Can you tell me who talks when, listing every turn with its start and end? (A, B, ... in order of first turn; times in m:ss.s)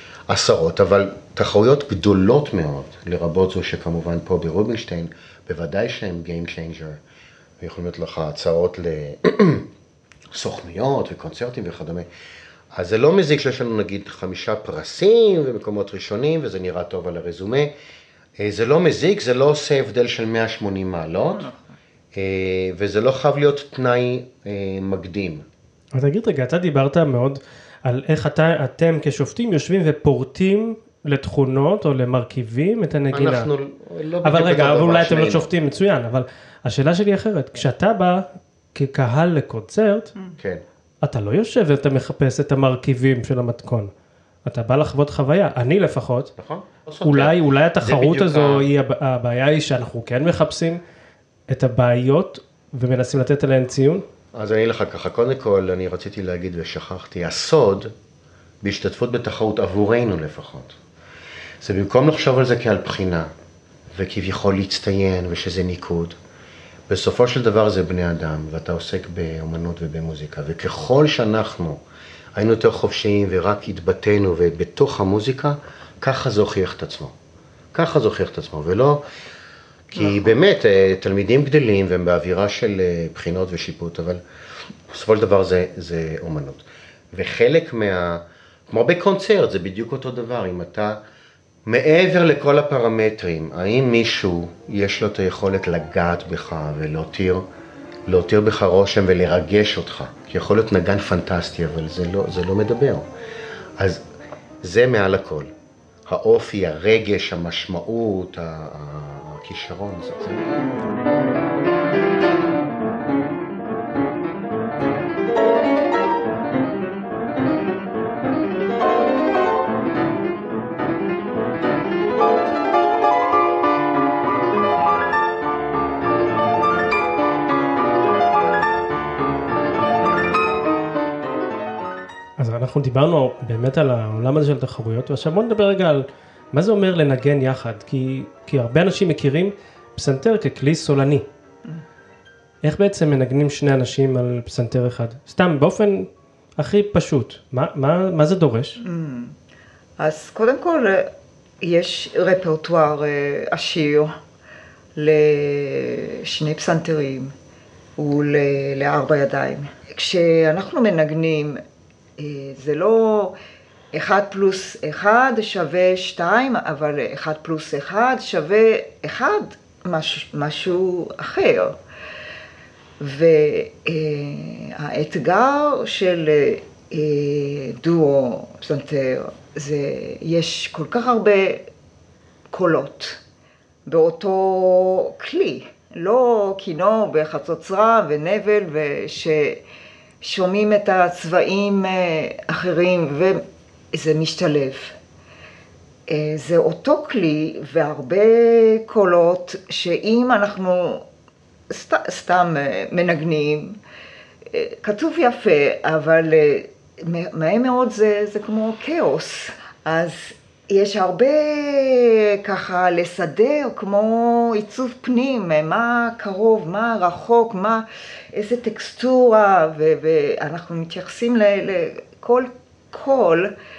0:00.3-0:07.0 A
0:07.6-0:09.7 A
0:10.3-0:12.1 A
0:12.7-0:17.7 A
0:18.4-0:21.5 A
0:22.1-0:25.4 A
0:25.9-0:33.5 B
0:33.1-0:35.5 A
0:34.2-0:40.1 B
0:40.4-0:40.6 A
0:41.0-0:43.9 B
0:44.4-0:46.3 B
0:46.4-0:48.7 A
0:47.0-0:50.8 B
0:51.5-0:54.1 B
0:54.3-0:57.9 A
0:58.6-1:00.8 A
1:01.6-1:03.3 A
1:03.9-1:06.2 A
1:06.9-1:11.8 A
1:12.4-1:17.2 A
1:17.7-1:19.0 A
1:19.9-1:24.2 A
1:24.9-1:31.0 A
1:31.7-1:37.4 A
1:38.1-1:43.1 A
1:43.8-1:44.0 A
1:44.6-1:45.5 A
1:46.1-1:50.6 A
2:12.4-2:21.3 B
2:22.6-2:28.8 B
2:28.8-2:29.4 C
2:30.0-2:31.1 C
2:31.6-2:34.2 C
2:35.0-2:37.3 C
2:38.0-2:41.6 C
2:42.2-2:43.4 C
2:43.9-2:51.8 C
2:53.0-3:01.7 C
3:02.5-3:03.2 C
3:03.9-3:09.6 C
3:10.2-3:13.4 C
3:13.9-3:15.0 C
3:16.1-3:21.1 C
3:21.7-3:23.8 C
3:24.5-3:43.5 C